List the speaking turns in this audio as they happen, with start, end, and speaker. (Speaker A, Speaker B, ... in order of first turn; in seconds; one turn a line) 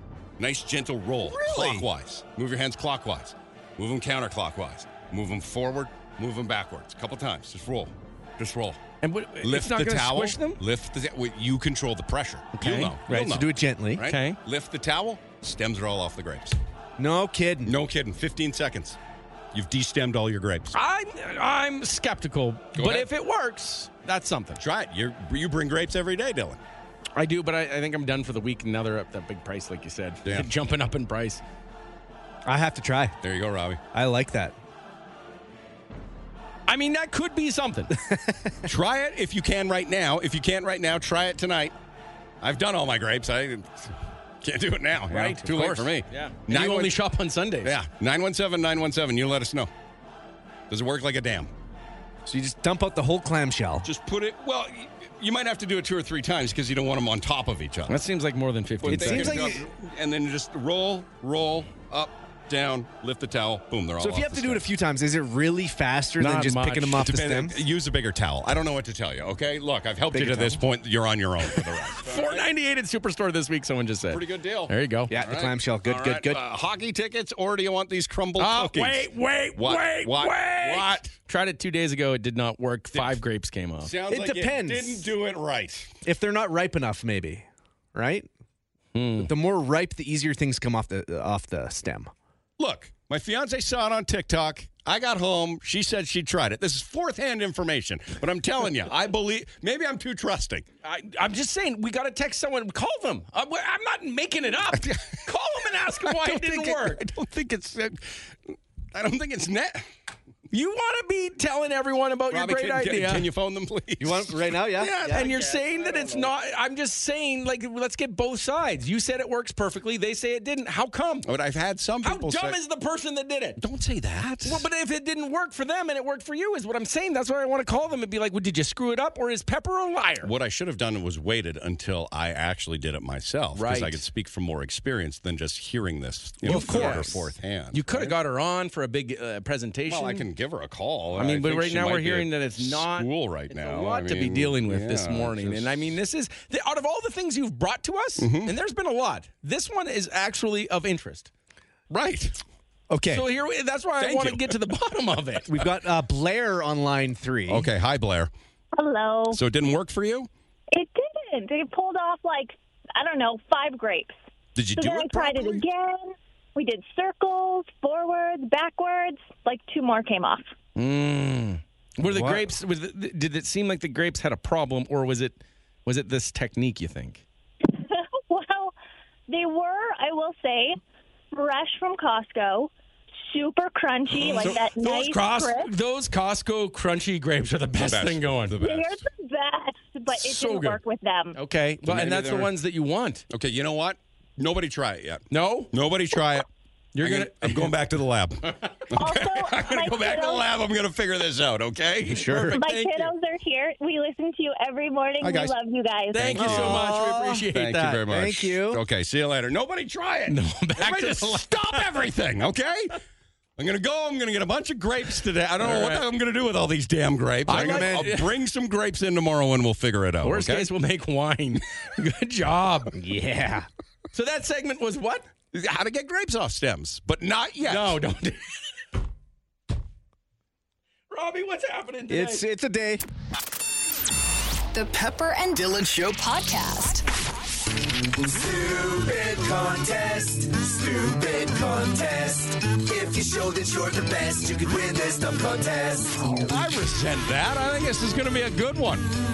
Speaker A: 0.4-8.8
Speaker B: 1.3-1.7
Speaker C: 9.0-10.6
Speaker A: 9.4-16.6
Speaker C: 12.5-12.9
Speaker B: 13.1-14.0
Speaker C: 14.0-14.4
Speaker B: 17.0-17.7
Speaker A: 17.6-19.0
Speaker A: 19.5-20.8
Speaker C: 20.7-24.6
Speaker A: 22.7-23.1
Speaker A: 24.6-26.6
Speaker C: 27.1-31.4
Speaker B: 32.5-33.2
Speaker A: 33.2-33.8
Speaker B: 33.9-34.5
Speaker C: 36.7-37.9
Speaker B: 37.9-38.7
Speaker A: 38.6-41.7
Speaker A: 42.4-47.0
Speaker C: 45.1-47.8
Speaker A: 47.6-49.7
Speaker A: 50.7-51.5
Speaker B: 52.2-53.9
Speaker A: 53.8-58.0
Speaker C: 57.9-59.4
Speaker A: 58.8-64.6
Speaker B: 58.9-59.7
Speaker B: 64.0-67.6
Speaker C: 66.2-67.1
Speaker A: 67.0-72.5
Speaker B: 70.1-70.5
Speaker C: 71.9-75.1
Speaker A: 74.1-81.1
Speaker B: 75.1-76.4
Speaker C: 78.4-83.9
Speaker A: 82.9-83.2
Speaker A: 83.8-85.9
Speaker B: 84.1-85.1
Speaker B: 86.0-88.3
Speaker C: 88.9-89.3
Speaker B: 89.2-92.1
Speaker A: 92.6-100.7
Speaker C: 100.8-107.0
Speaker A: 104.7-105.2
Speaker A: 106.0-108.2
Speaker A: 108.9-109.8
Speaker C: 110.5-113.2
Speaker A: 112.3-116.3
Speaker B: 114.0-115.3
Speaker C: 115.1-121.3
Speaker A: 121.2-122.6
Speaker C: 122.0-123.6
Speaker A: 123.6-124.7
Speaker C: 124.4-130.3
Speaker A: 130.2-138.2
Speaker C: 133.5-134.0
Speaker C: 136.4-140.2
Speaker B: 136.5-137.0
Speaker A: 139.9-146.0
Speaker C: 141.2-151.3
Speaker A: 148.2-148.5
Speaker A: 151.9-152.4
Speaker B: 152.9-153.2
Speaker C: 153.1-155.6
Speaker A: 154.0-154.5
Speaker B: 155.5-157.7
Speaker A: 157.5-158.3
Speaker D: 158.7-159.4
Speaker A: 159.3-160.3
Speaker D: 160.7-164.2
Speaker A: 164.5-165.6
Speaker D: 164.8-170.5
Speaker C: 170.8-177.2
Speaker B: 172.0-172.5
Speaker D: 177.7-178.7
Speaker D: 179.3-180.8
Speaker D: 181.3-182.7
Speaker D: 183.3-185.7
Speaker C: 184.2-188.6
Speaker A: 187.8-189.0
Speaker D: 188.6-191.4
Speaker C: 190.1-190.8
Speaker C: 191.3-193.2
Speaker A: 191.8-192.5
Speaker A: 193.3-196.4
Speaker C: 195.3-195.7
Speaker C: 196.9-197.7
Speaker A: 197.0-203.0
Speaker C: 198.4-198.8
Speaker D: 198.9-200.5
Speaker C: 202.1-203.0
Speaker D: 202.5-206.4
Speaker A: 205.2-205.5
Speaker C: 206.1-208.0
Speaker A: 206.2-206.9
Speaker B: 206.4-207.5
Speaker A: 207.5-212.9
Speaker B: 208.0-208.8
Speaker C: 210.3-211.9
Speaker A: 213.6-220.7
Speaker C: 215.6-216.0
Speaker C: 217.5-218.3
Speaker C: 220.2-222.9
Speaker B: 222.9-223.7
Speaker C: 224.1-225.3
Speaker A: 225.5-228.0
Speaker C: 227.6-228.4
Speaker C: 231.1-232.4
Speaker B: 232.1-233.0
Speaker E: 234.7-237.0
Speaker F: 235.5-236.2
Speaker F: 238.2-246.2
Speaker A: 246.2-249.1